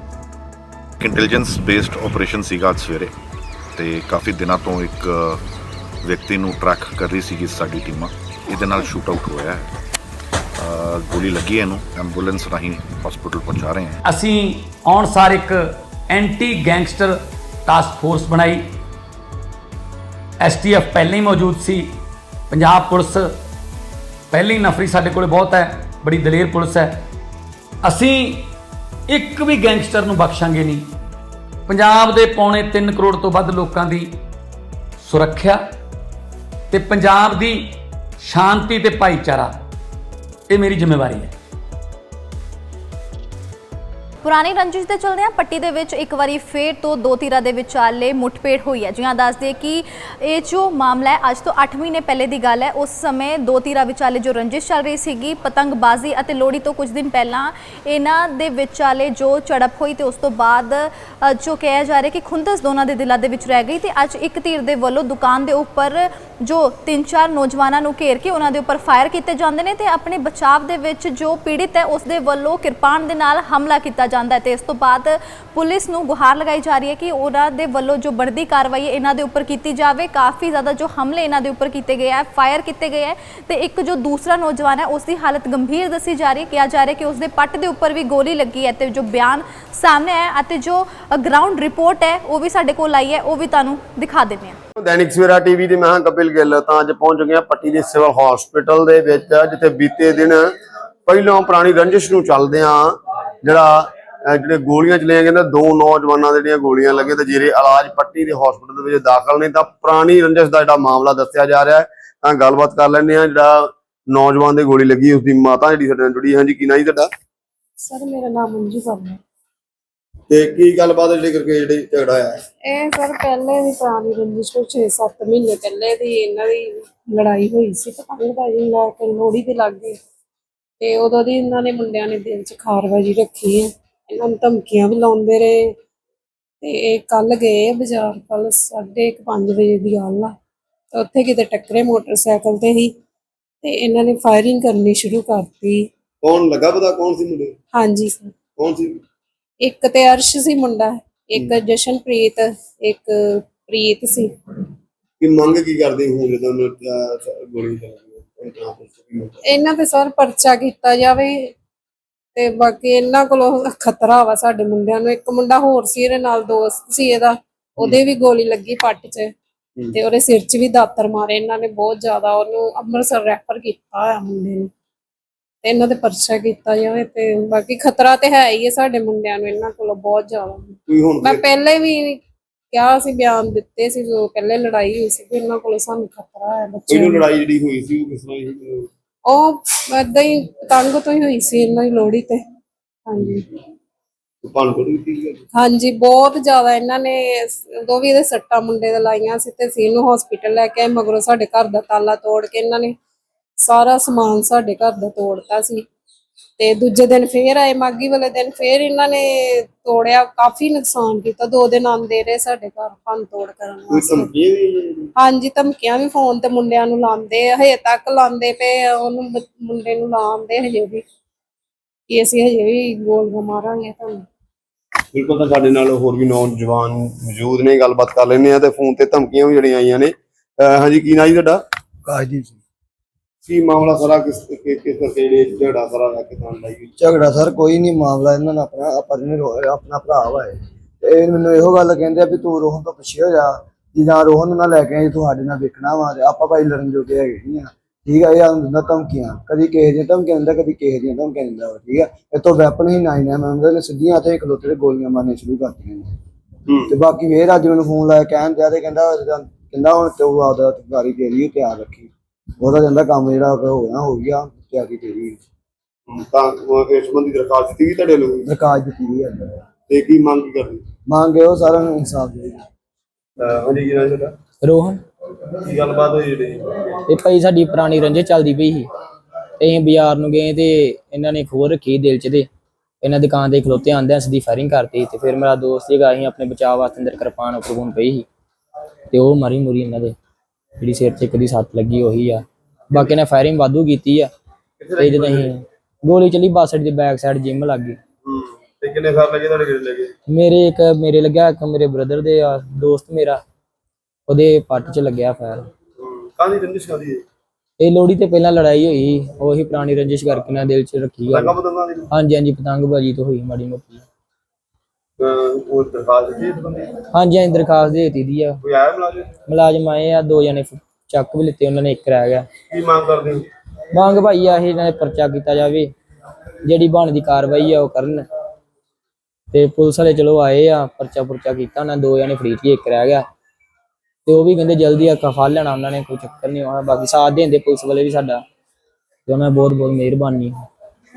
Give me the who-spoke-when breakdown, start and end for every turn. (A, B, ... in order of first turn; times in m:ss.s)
0:01.0-0:03.1 A
0:03.7-0:05.4 A
0:06.0-0:09.7 A
0:10.6-0:14.0 A
0:14.0-0:18.6 B
0:20.4-0:21.9 B
0:22.5-0:23.3 B
0:24.3-0:27.0 B
0:27.8-0:28.5 B
0:29.1-0:30.9 B
0:31.7-0:34.2 B
0:35.0-0:35.6 B
0:36.7-0:39.6 B
0:40.5-0:41.3 B
0:44.2-1:34.6 C
1:34.8-1:40.4 D
1:41.1-1:42.8 D
1:43.4-1:43.7 D
1:44.3-1:57.1 D
1:57.8-1:59.2 E
2:00.3-2:02.3 D
2:02.6-2:10.0 E
2:10.8-2:15.7 E
2:16.6-2:20.3 E
2:20.9-2:22.9 E
2:23.6-2:25.8 E
2:26.2-2:27.5 D
2:27.7-2:28.4 E
2:28.5-2:29.0 D
2:29.6-2:34.3 E
2:35.2-2:39.6 D
2:39.4-2:41.5 E
2:42.4-2:49.3 E
2:49.9-2:54.7 E
2:55.6-3:02.2 E
3:00.9-3:01.5 D
3:02.7-3:07.2 E
3:06.9-3:08.9 D
3:09.2-3:12.4 E
3:13.0-3:13.4 E
3:14.4-3:15.4 D
3:15.5-3:22.9 E
3:23.6-3:25.8 E
3:26.6-3:34.3 E
3:33.9-3:35.1 D
3:35.2-3:41.0 E
3:42.1-3:44.2 E
3:45.1-3:51.6 D
3:52.0-3:52.6 F
3:53.4-3:56.9 D
3:57.0-4:16.1 F
4:16.7-4:16.9 D
4:16.8-4:25.4 F
4:26.1-4:28.5 D
4:28.4-4:29.6 F
4:29.9-4:30.8 D
4:31.0-4:32.6 F
4:33.4-4:34.3 D
4:34.6-4:35.0 G
4:35.6-4:36.8 D
4:37.1-4:38.9 G
4:39.6-4:42.5 G
4:43.0-4:48.2 G
4:49.1-4:50.1 G
4:50.8-4:54.3 G
4:54.8-4:55.5 D
4:55.0-4:58.0 G
4:58.2-5:00.1 D
5:00.3-5:03.4 G
5:04.3-5:05.6 G
5:06.0-5:07.2 D
5:07.8-5:11.5 G
5:11.3-5:12.1 D
5:12.1-5:14.0 G
5:15.2-5:16.9 D
5:17.1-5:18.6 G
5:18.6-5:19.3 D
5:19.5-5:22.4 G
5:22.7-5:23.4 D
5:23.9-5:25.9 G
5:26.6-5:28.2 G
5:29.5-5:33.2 G
5:34.2-5:38.4 G
5:39.3-5:40.6 G